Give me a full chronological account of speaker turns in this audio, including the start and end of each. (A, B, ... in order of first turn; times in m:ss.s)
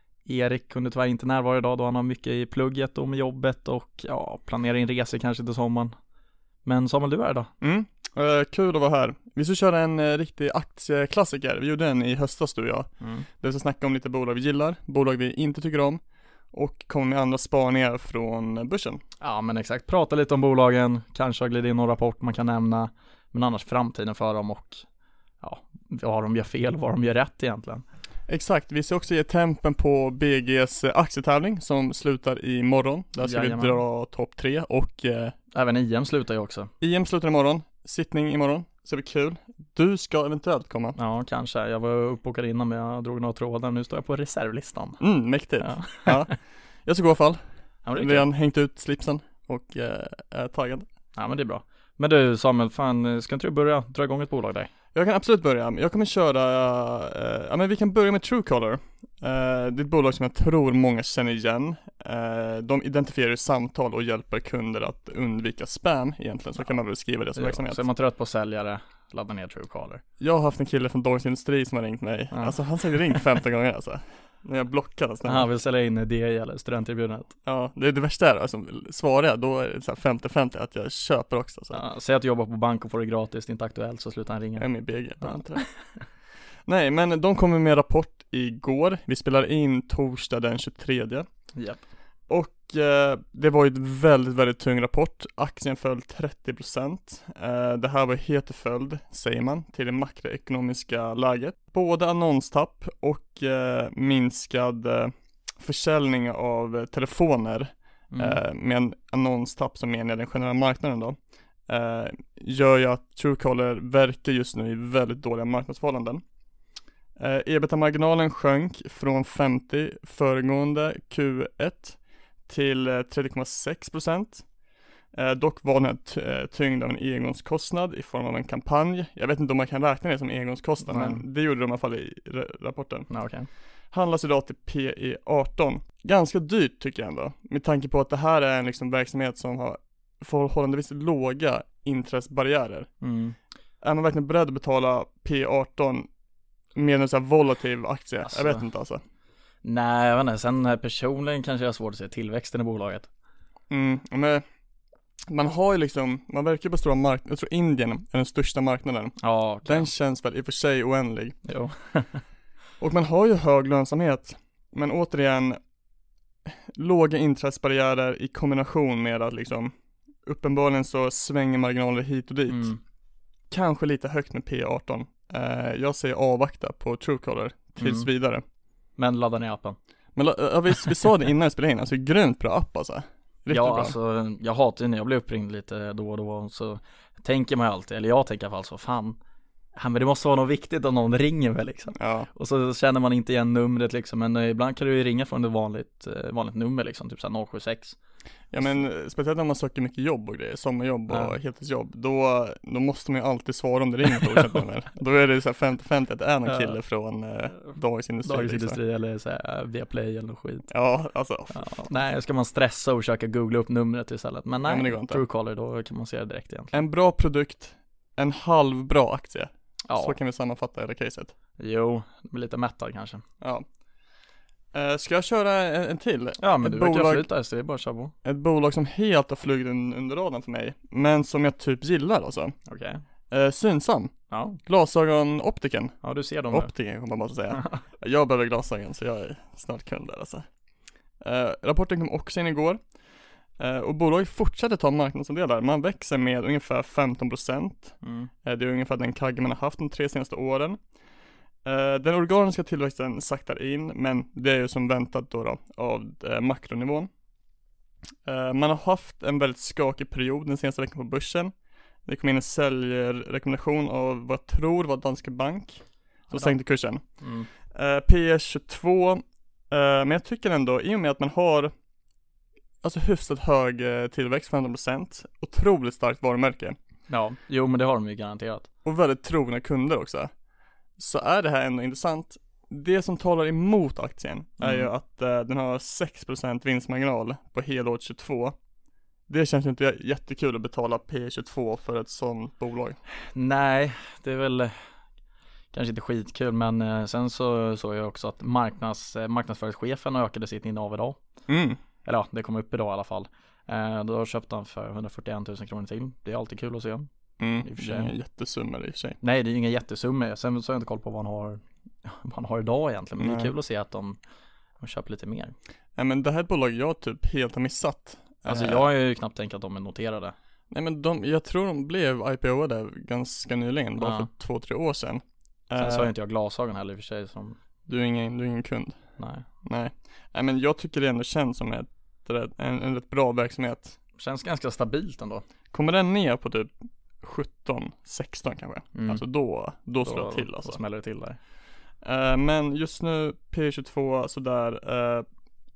0:00.2-0:05.9 A
0:06.6-0:07.5 A
0:07.6-0:12.9 B
0:13.0-0:13.3 A
0:13.4-0:16.0 B
0:16.5-0:19.0 B
0:19.2-0:24.8 A
0:25.4-0:27.8 A
0:28.3-0:35.3 B
0:33.2-0:33.8 A
0:35.5-0:36.7 A
0:36.8-0:41.0 B
0:41.0-0:45.0 A
0:45.0-0:46.3 B
0:45.6-0:46.3 A
0:46.8-0:47.4 B
0:47.8-0:48.3 A
0:48.0-0:50.8 B
0:51.2-0:54.7 A
0:54.9-1:07.8 B
1:07.3-1:10.0 A
1:10.2-1:15.5 B
1:12.3-1:12.6 A
1:15.2-1:17.3 A
1:17.4-1:21.8 B
1:21.7-1:24.6 A
1:24.6-1:25.6 B
1:25.2-1:25.7 A
1:26.6-1:31.2 B
1:31.6-1:31.8 A
1:32.3-1:56.2 B
1:48.1-1:48.4 A
1:57.2-2:04.4 B
2:05.1-2:13.1 B
2:10.8-2:11.2 A
2:13.1-2:13.5 A
2:13.9-2:22.9 B
2:23.0-2:23.4 A
2:23.8-2:26.1 B
2:26.7-2:29.0 B
2:28.2-2:28.6 A
2:29.6-2:33.1 A
2:33.7-2:34.4 B
2:35.3-2:41.4 B
2:39.2-2:39.9 A
2:41.4-2:42.2 A
2:42.8-2:45.6 B
2:46.5-2:49.7 B
2:50.2-2:52.7 B
2:52.5-2:52.8 A
2:53.5-2:58.4 B
2:57.8-2:58.1 A
2:59.0-2:59.8 A
3:00.2-3:03.9 B
3:03.5-3:09.2 A
3:09.7-3:18.0 A
3:12.0-3:12.3 B
3:18.5-3:28.8 B
3:21.1-3:21.3 A
3:26.5-3:26.8 A
3:28.2-3:30.7 A
3:30.7-3:31.8 B
3:31.5-3:36.8 A
3:34.6-3:35.2 B
3:36.7-3:41.3 B
3:39.9-3:40.2 A
3:41.6-3:43.2 A
3:44.7-3:47.3 B
3:46.4-3:48.1 A
3:48.2-3:52.6 B
3:52.7-3:53.0 A
3:53.3-3:56.0 B
3:54.3-3:54.6 A
3:56.0-3:56.7 A
3:56.5-4:00.5 B
4:01.2-4:02.8 B
4:03.6-4:10.8 B
4:08.0-4:08.3 A
4:11.6-4:17.1 B
4:18.2-4:21.5 B
4:22.0-4:27.0 B
4:27.2-4:27.5 A
4:27.6-4:31.7 B
4:32.8-4:36.8 B
4:37.1-4:38.7 A
4:38.8-4:40.3 B
4:41.0-4:48.5 B
4:44.6-4:44.9 A
4:49.3-4:53.0 B
4:53.3-4:54.7 A
4:55.7-5:01.2 A
5:01.5-5:01.8 B
5:02.0-5:07.1 A
5:07.4-5:09.2 B
5:07.6-5:08.1 A
5:09.2-5:14.2 A
5:13.2-5:13.5 B
5:14.8-5:15.5 A
5:16.0-5:18.9 B
5:18.5-5:20.3 A
5:20.7-5:26.1 B
5:24.0-5:24.3 A
5:25.8-5:27.6 A
5:27.8-5:29.0 B
5:29.2-5:29.4 A
5:29.6-5:34.0 B
5:34.2-5:35.4 A
5:35.7-5:40.8 B
5:38.9-5:39.2 A
5:40.0-5:41.4 A
5:42.0-5:45.2 B